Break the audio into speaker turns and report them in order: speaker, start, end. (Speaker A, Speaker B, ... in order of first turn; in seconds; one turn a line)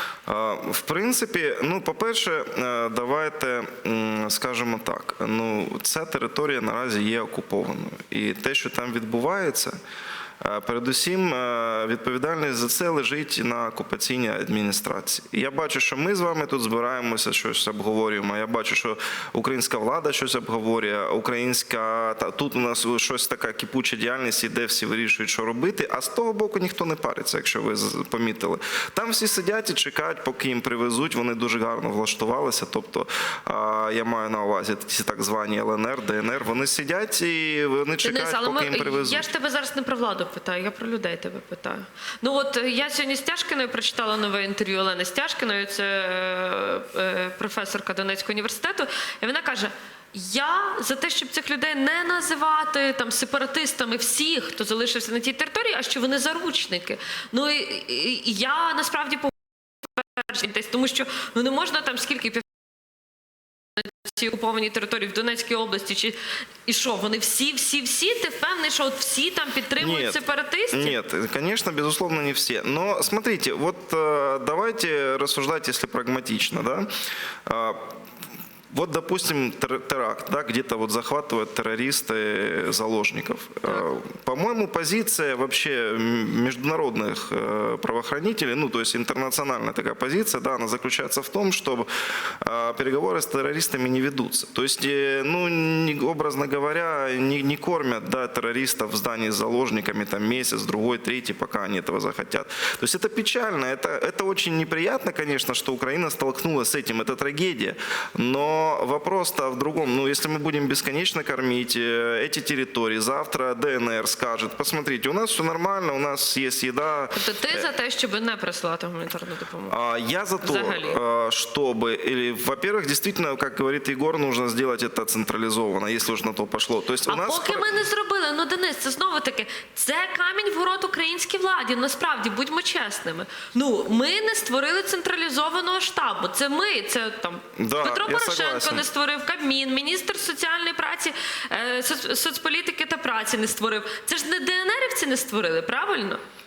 Speaker A: 0.3-9.8
Speaker A: 10.4-39.3
Speaker B: 38.0-62.5
Speaker B: 63.8-71.0
Speaker A: 69.8-70.2
Speaker A: 70.7-76.9
Speaker A: 77.5-77.9
Speaker A: 78.7-91.9
Speaker A: 92.4-117.7
Speaker B: 117.1-119.8
Speaker A: 119.7-127.7
Speaker B: 120.4-121.0
Speaker B: 127.1-146.2
Speaker A: 137.6-138.8